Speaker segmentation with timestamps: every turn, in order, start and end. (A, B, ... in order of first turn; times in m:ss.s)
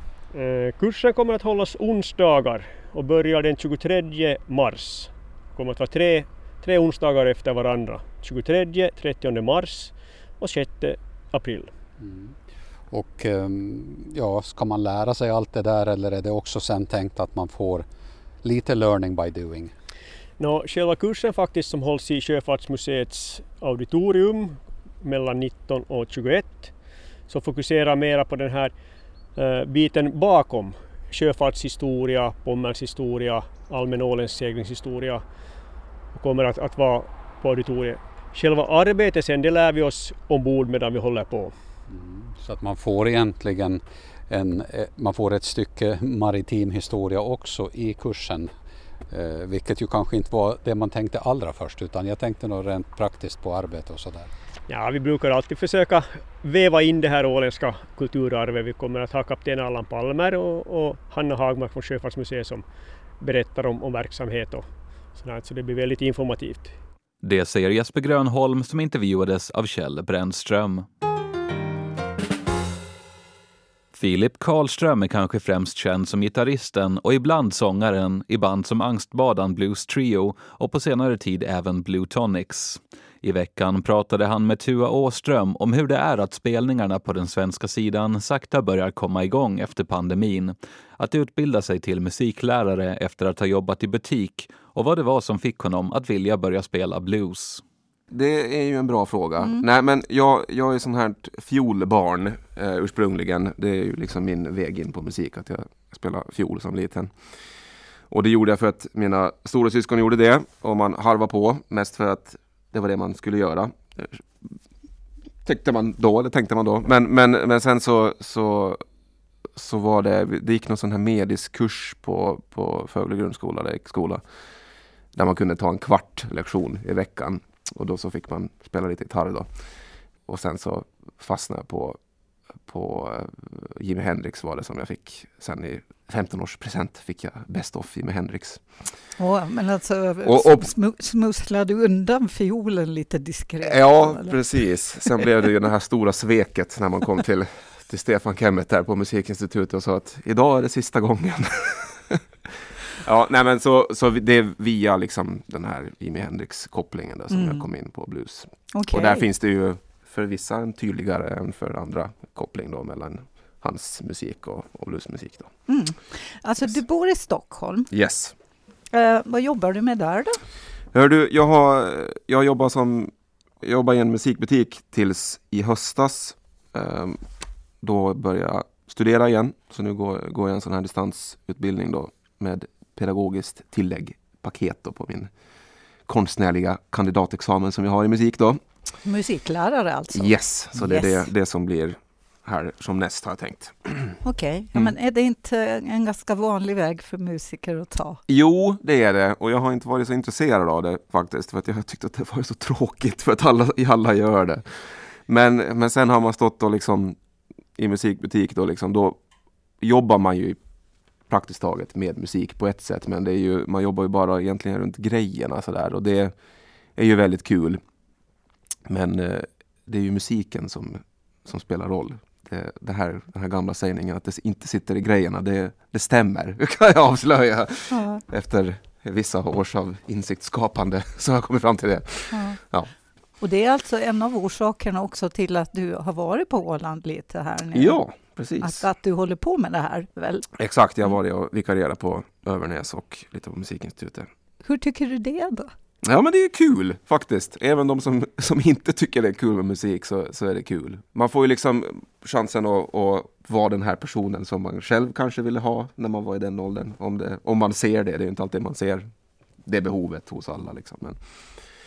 0:00.3-0:11.7 A
0:12.0-0:12.4 B
0:12.9-0:17.9 B
0:18.4-0:19.7 B
0:20.4-0:35.2 A
0:36.1-0:41.6 A
0:41.9-0:48.5 B
0:49.1-0:54.3 B
0:54.7-1:02.6 A
1:03.2-1:06.8 A
1:07.2-1:10.9 C
1:13.9-1:37.6 C
1:38.1-1:47.4 D
1:48.1-1:54.6 D
1:55.4-1:58.8 D
1:59.5-2:04.2 D
2:05.1-2:12.0 D
2:12.6-2:19.0 D
2:19.2-2:25.3 E
2:20.2-2:20.7 D
2:23.6-2:32.2 D
2:33.0-2:45.6 D
2:37.3-2:37.7 E
2:38.7-2:39.2 E
2:45.6-2:47.9 E
2:47.9-2:48.3 D
2:48.9-2:50.4 E
2:50.9-2:57.2 D
2:57.8-3:05.3 D
3:06.0-3:08.6 D
3:09.0-3:11.3 E
3:10.1-3:14.2 D
3:14.2-3:18.2 E
3:18.3-3:27.2 D
3:27.8-3:29.2 D
3:29.8-3:30.6 D
3:31.2-3:36.4 D
3:36.9-3:37.8 D
3:38.9-3:52.9 D
3:47.9-3:48.2 E
3:52.3-3:52.6 E
3:53.4-4:00.4 E
3:57.7-3:58.8 D
4:00.6-4:04.3 D
4:04.6-4:05.7 E
4:06.0-4:21.7 D